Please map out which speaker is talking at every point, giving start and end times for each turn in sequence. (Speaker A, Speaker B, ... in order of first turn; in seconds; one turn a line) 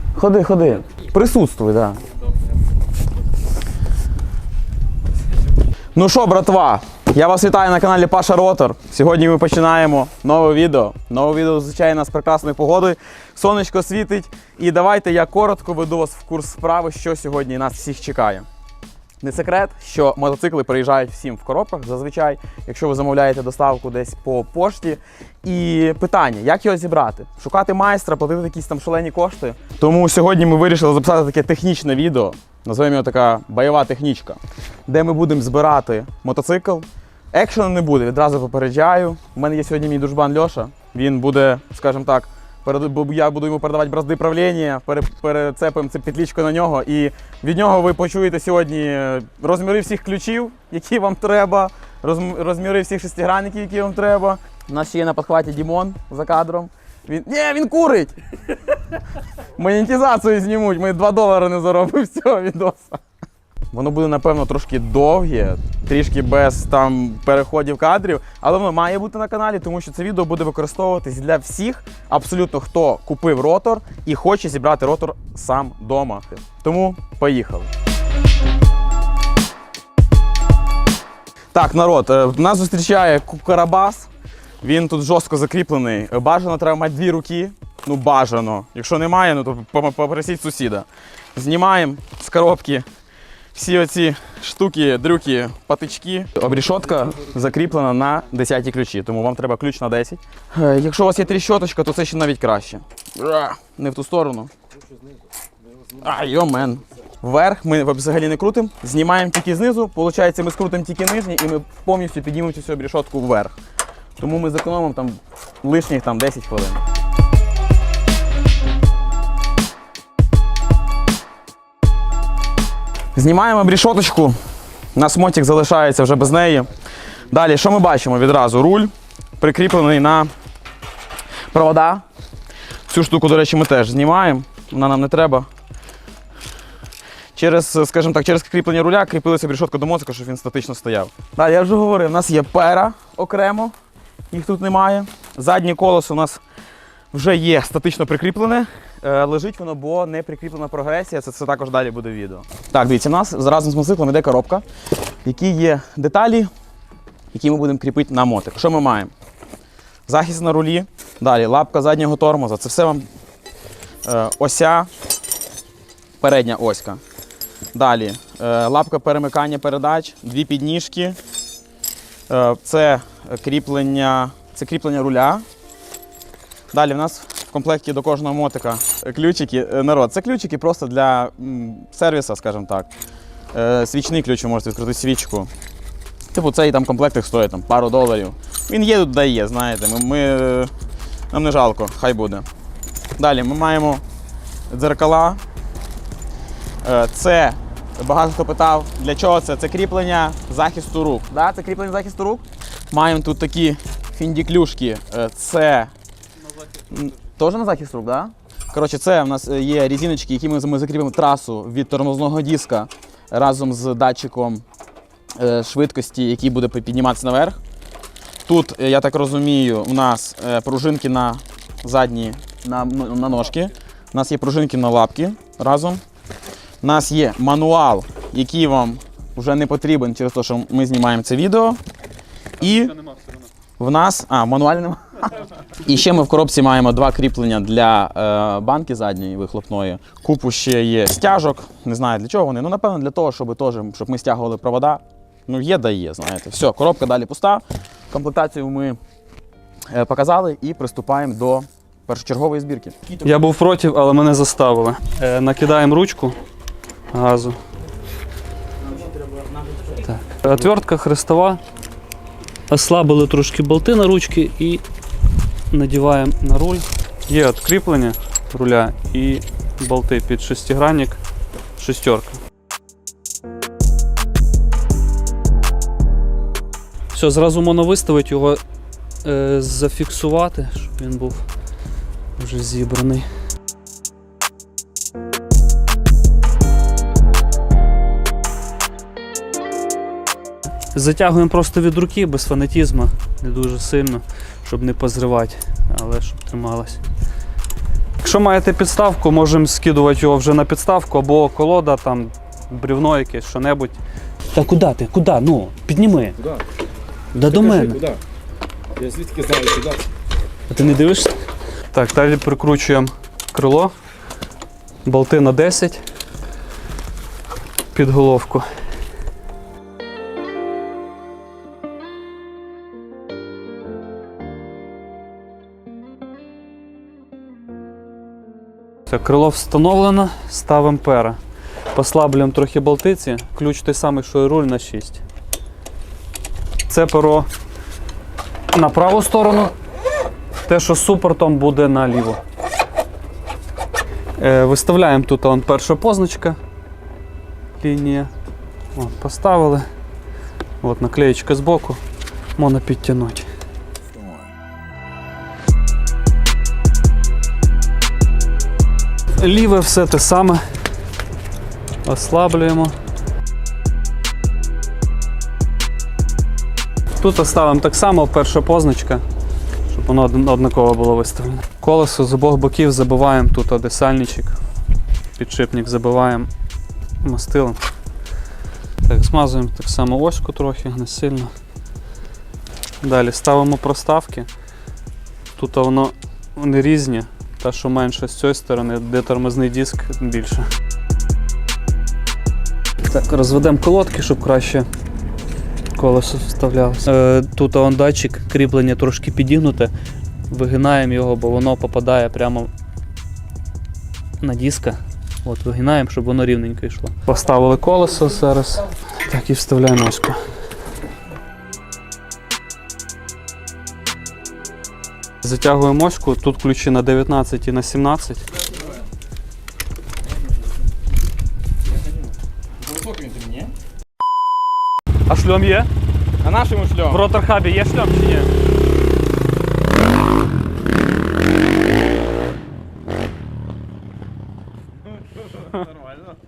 Speaker A: 0.1-2.0
Speaker A: 6.0-18.4
Speaker A: 19.2-58.2
Speaker A: 59.5-63.0
Speaker A: 63.7-77.7
Speaker A: 81.5-84.1
Speaker A: 84.6-92.8
Speaker A: 93.5-104.5
Speaker B: 104.7-107.1
Speaker A: 106.0-113.5
Speaker A: 114.2-116.8
Speaker A: 123.1-124.4
Speaker A: 124.9-126.7
Speaker A: 127.3-130.3
Speaker A: 131.5-132.0
Speaker A: 132.9-135.5
Speaker A: 137.3-143.7
Speaker A: 144.3-146.4
Speaker A: 147.1-154.6
Speaker A: 155.2-156.5
Speaker A: 157.3-159.1
Speaker A: 160.1-163.1
Speaker A: 164.0-164.9
Speaker A: 166.2-167.0
Speaker A: 167.7-171.2
Speaker A: 172.3-175.4
Speaker A: 176.7-182.9
Speaker A: 183.5-185.5
Speaker A: 186.3-190.7
Speaker A: 191.3-192.4
Speaker A: 193.2-194.0
Speaker A: 194.7-195.4
Speaker A: 196.8-205.9
Speaker C: 206.6-207.2
Speaker A: 206.9-214.6
Speaker A: 215.3-217.6
Speaker A: 218.5-226.0
Speaker A: 226.8-231.8
Speaker A: 232.6-232.9
Speaker C: 232.6-233.5
Speaker A: 233.8-249.0
Speaker A: 249.9-253.2
Speaker C: 253.2-256.4
Speaker C: 257.1-257.6
Speaker A: 258.8-260.0
Speaker C: 260.0-261.6
Speaker C: 262.7-264.8
Speaker C: 265.7-271.2
Speaker C: 271.8-272.4
Speaker C: 277.1-278.6
Speaker C: 279.2-281.4
Speaker C: 282.4-283.3
Speaker C: 290.9-297.0
Speaker C: 298.2-304.0
Speaker C: 304.5-306.4
Speaker B: 306.4-306.6
Speaker C: 307.3-308.0
Speaker B: 307.4-308.2
Speaker B: 308.9-310.0
Speaker C: 310.7-311.4
Speaker C: 311.9-313.9
Speaker C: 315.0-316.0
Speaker C: 317.9-318.7
Speaker C: 329.1-331.4
Speaker C: 331.9-335.2
Speaker C: 336.9-337.5
Speaker C: 338.7-339.7
Speaker C: 340.6-342.4
Speaker C: 344.4-346.6
Speaker C: 347.8-348.3
Speaker C: 348.9-349.9
Speaker C: 350.8-352.0
Speaker C: 352.6-353.5
Speaker C: 359.4-360.6
Speaker C: 362.0-362.9
Speaker C: 367.2-369.2
Speaker C: 369.9-374.6
Speaker C: 375.4-376.5
Speaker C: 377.2-377.8
Speaker C: 379.0-381.5
Speaker C: 383.0-384.5
Speaker C: 385.6-390.7
Speaker C: 393.1-394.9
Speaker C: 395.9-399.9
Speaker C: 400.5-402.7
Speaker C: 404.4-410.4
Speaker C: 415.4-418.4
Speaker A: 421.8-423.7
Speaker C: 425.3-425.9
Speaker A: 426.4-427.2
Speaker C: 427.1-428.5
Speaker A: 435.7-436.2